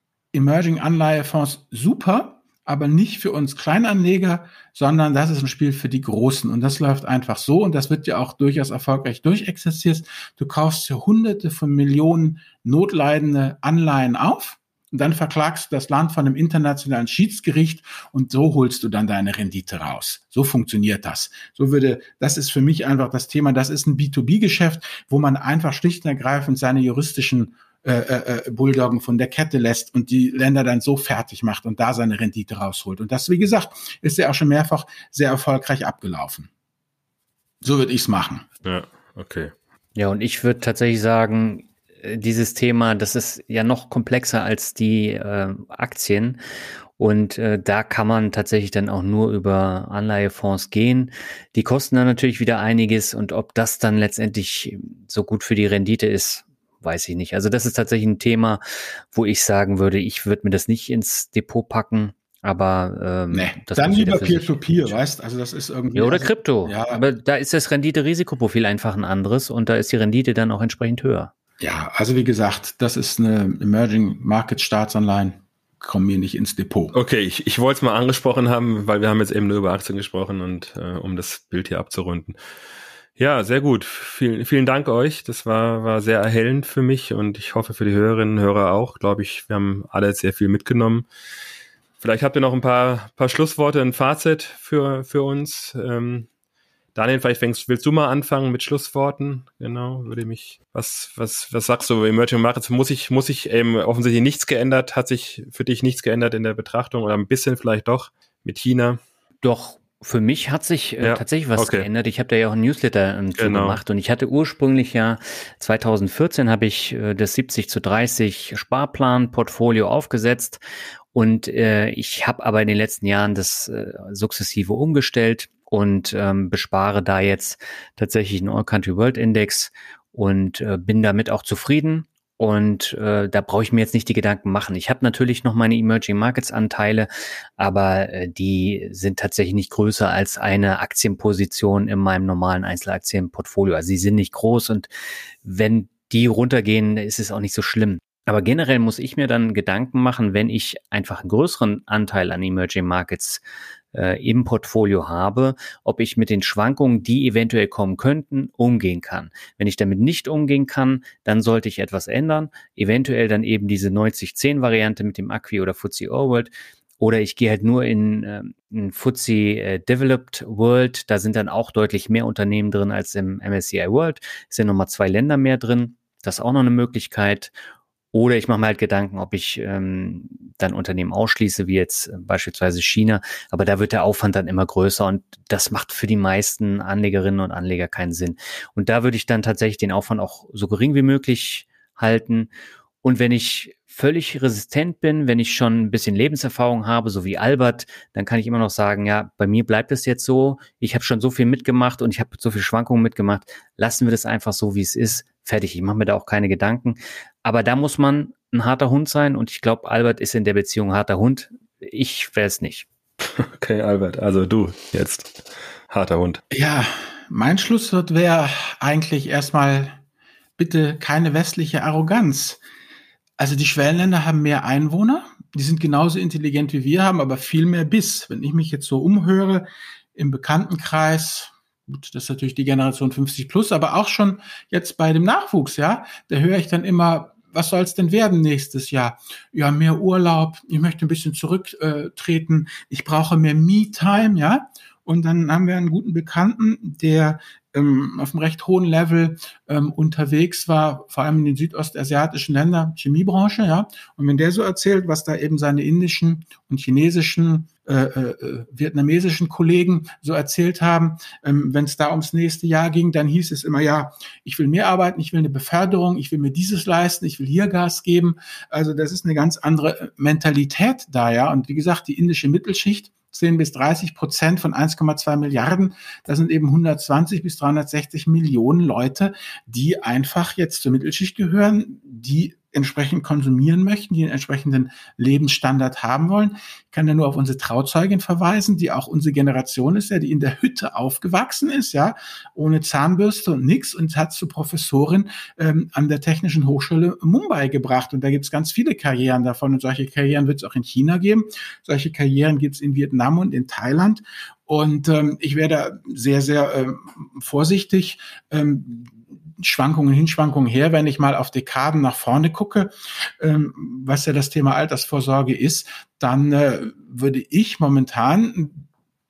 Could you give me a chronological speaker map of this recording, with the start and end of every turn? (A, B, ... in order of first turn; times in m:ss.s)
0:00.3-0:36.5 A
0:37.6-0:38.5 A
0:38.6-0:39.5 B
0:40.0-0:46.4 C
0:47.0-0:58.6 C
0:59.1-1:05.0 C
1:03.3-1:07.0 A
1:05.9-1:11.3 C
1:11.6-1:16.9 A
1:16.9-1:22.4 B
1:23.2-1:31.1 B
1:32.0-1:36.3 B
1:37.0-1:49.0 B
1:49.4-2:00.6 C
1:51.0-1:51.9 B
1:53.4-1:53.8 B
2:01.1-2:24.9 C
2:25.4-2:33.4 C
2:33.9-2:57.5 C
2:58.1-3:12.5 C
3:13.0-3:32.9 C
3:33.2-3:36.4 B
3:36.5-3:40.0 A
3:40.6-3:42.6 A
3:43.4-5:18.9 A